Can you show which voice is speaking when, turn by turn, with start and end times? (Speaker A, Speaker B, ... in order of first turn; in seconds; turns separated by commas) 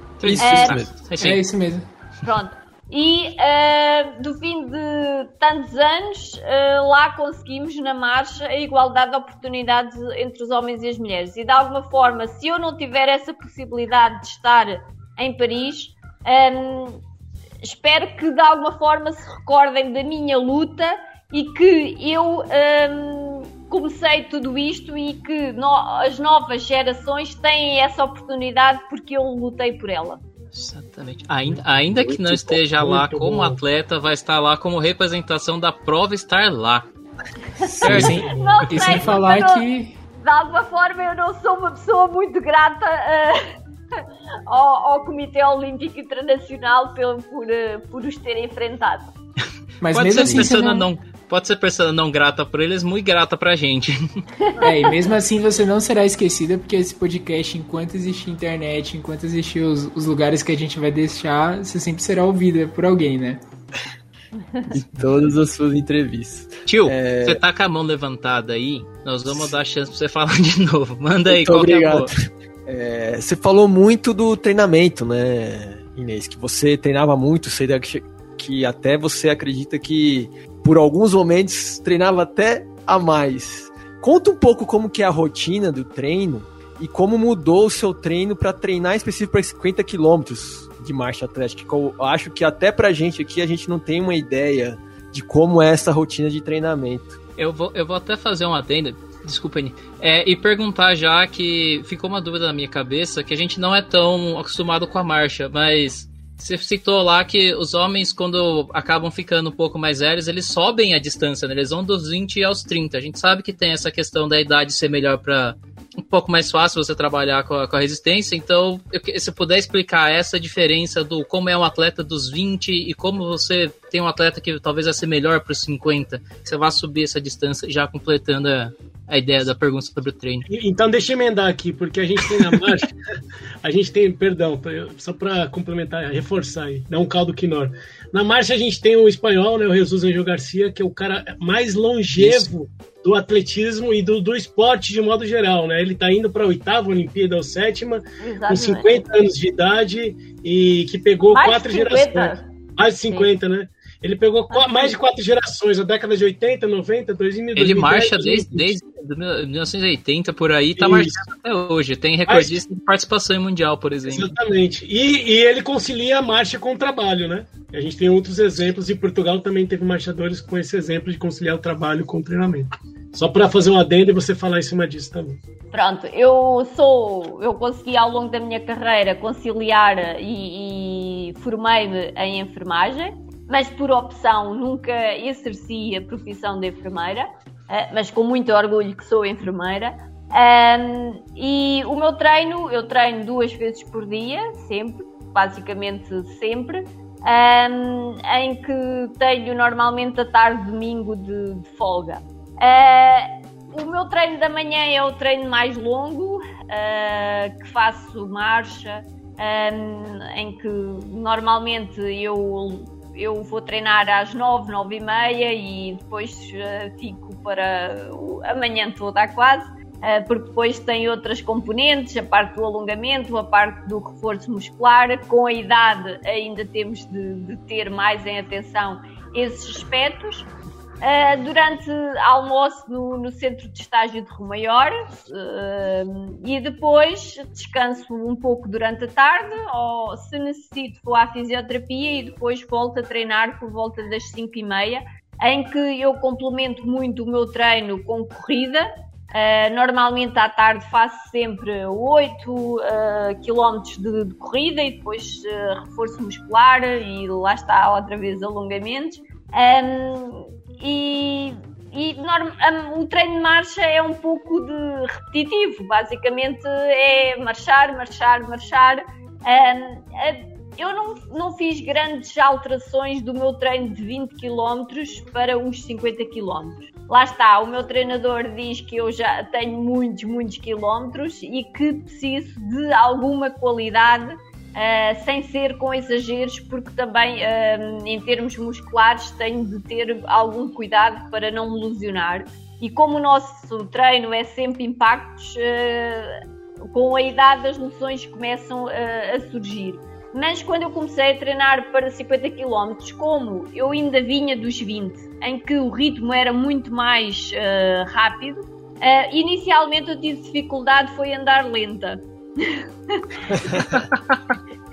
Speaker A: 0.2-1.4, Speaker B: 0.2-0.9, Speaker C: 0.4-0.8, Speaker D: 1.2-1.9, Speaker C: 2.2-17.0, Speaker C: 17.6-30.2, Speaker A: 30.5-36.9, Speaker E: 31.5-33.6, Speaker D: 37.6-40.0, Speaker C: 37.8-39.7, Speaker A: 37.9-38.1, Speaker E: 37.9-39.1, Speaker C: 40.2-43.4, Speaker C: 44.5-49.1, Speaker D: 49.8-50.9, Speaker A: 49.9-54.0, Speaker B: 50.2-50.5, Speaker C: 54.5-54.9, Speaker D: 54.6-63.4, Speaker B: 64.7-67.4, Speaker A: 66.7-72.1, Speaker B: 71.3-97.2, Speaker A: 97.4-130.5, Speaker E: 130.5-133.0, Speaker E: 133.6-158.8, Speaker A: 142.2-142.5, Speaker C: 148.2-149.1, Speaker C: 151.3-152.5, Speaker C: 154.5-155.0, Speaker A: 157.6-164.3, Speaker E: 160.8-161.2, Speaker E: 162.3-162.6, Speaker E: 164.1-175.4, Speaker C: 175.7-230.5, Speaker C: 231.0-296.4, Speaker C: 296.9-313.4, Speaker B: 313.5-313.9